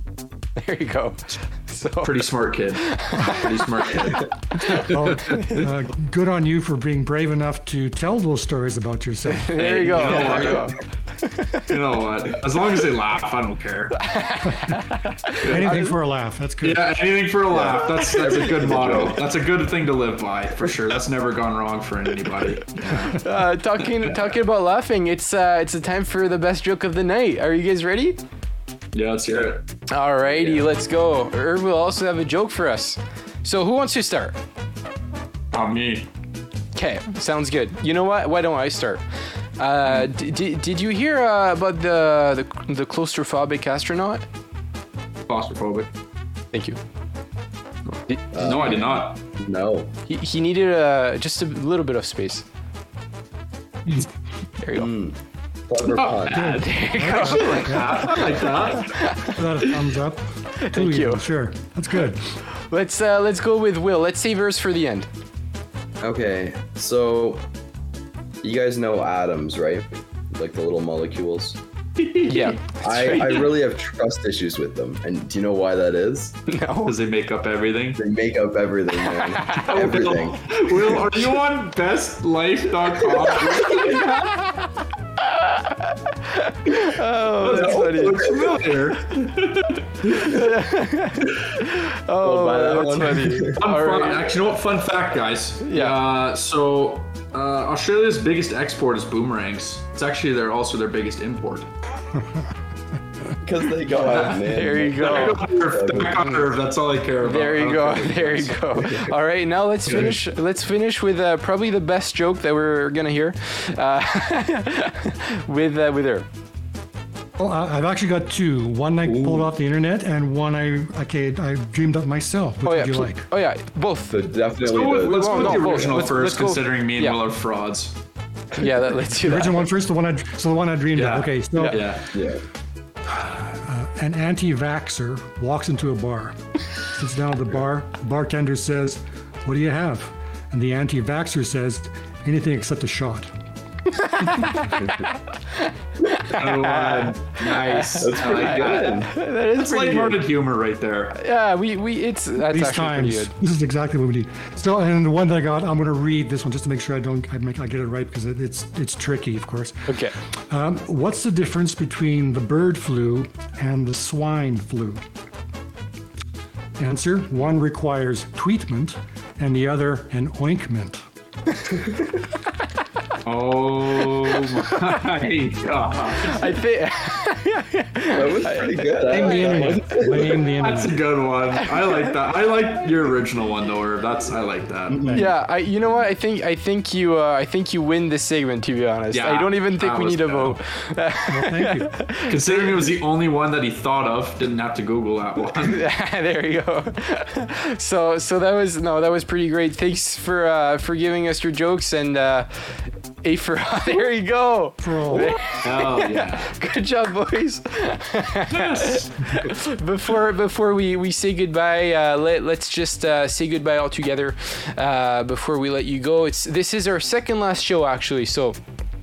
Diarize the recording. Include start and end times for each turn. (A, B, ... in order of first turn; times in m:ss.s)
0:00.6-0:02.2 A
0:02.0-0:05.5 B
0:02.8-0:03.5 A
0:04.7-0:10.3 C
0:09.3-0:10.8 A
0:09.6-0:10.8 B
0:10.0-0:10.7 D
0:11.3-0:11.6 A
0:11.7-0:14.0 B
0:14.0-0:15.9 A
0:15.4-0:15.8 B
0:15.4-0:17.1 C
0:16.6-0:23.2 B
0:17.5-0:19.3 D
0:23.0-0:28.2 A
0:23.8-0:24.3 B
0:28.9-0:29.6 B
0:29.9-0:34.4 A
0:30.3-0:30.6 B
0:35.5-0:36.1 B
0:36.7-0:39.0 A
0:39.6-0:44.2 A
0:45.3-0:45.9 B
0:48.3-0:49.2 B
0:48.3-0:49.9 D
0:50.1-0:52.4 A
0:54.6-0:54.9 A
0:54.7-0:55.2 D
0:55.7-0:56.6 D
0:55.8-0:56.4 B
0:56.3-0:59.7 A
0:56.3-0:58.4 C
0:57.0-0:58.9 B
0:59.2-1:02.2 C
1:00.6-1:01.2 A
1:02.5-1:05.1 A
1:06.0-1:07.4 D
1:08.4-1:11.6 D
1:12.0-1:12.6 B
1:12.3-1:13.5 A
1:12.8-1:16.4 D
1:16.5-1:16.9 A
1:16.8-1:18.0 B
1:17.9-1:21.1 D
1:19.4-1:19.9 A
1:19.5-1:24.2 B
1:23.6-1:24.6 A
1:25.2-1:28.4 A
1:27.4-1:28.7 D
1:27.4-1:30.0 B
1:30.1-1:34.3 A
1:32.2-1:33.6 D
1:33.6-1:41.7 B
1:35.6-1:35.9 A
1:43.4-1:46.4 D
1:43.9-1:48.4 B
1:44.5-1:45.5 A
1:46.0-1:46.4 A
1:47.2-1:56.2 A
1:48.7-1:49.1 D
1:49.9-1:50.2 B
1:57.4-2:03.2 C
1:59.0-1:59.5 B
2:02.6-2:04.2 A
2:04.1-2:06.2 D
2:04.6-2:08.0 B
2:04.7-2:07.2 A
2:08.6-2:09.7 A
2:09.2-2:11.8 C
2:10.9-2:12.1 B
2:12.1-2:12.4 D
2:13.1-2:16.4 C
2:16.9-2:23.3 C
2:23.9-2:30.3 A
2:26.3-2:31.2 B
2:28.0-2:29.1 D
2:31.1-2:33.3 A
2:32.5-2:45.0 C
2:39.9-2:40.1 A
2:46.8-2:51.0 C
2:53.2-2:56.6 B
2:54.3-2:54.8 A
2:56.2-2:59.8 A
2:58.1-3:00.5 D
2:59.0-3:01.0 C
3:00.6-3:05.1 B
3:04.9-3:05.3 D
3:05.0-3:05.3 C
3:05.1-3:12.9 A
3:09.1-3:10.6 B
3:11.3-3:11.9 C
3:12.3-3:15.8 B
3:15.6-3:38.6 A
3:24.8-3:25.6 C
3:25.6-3:26.5 B
3:28.5-3:29.5 B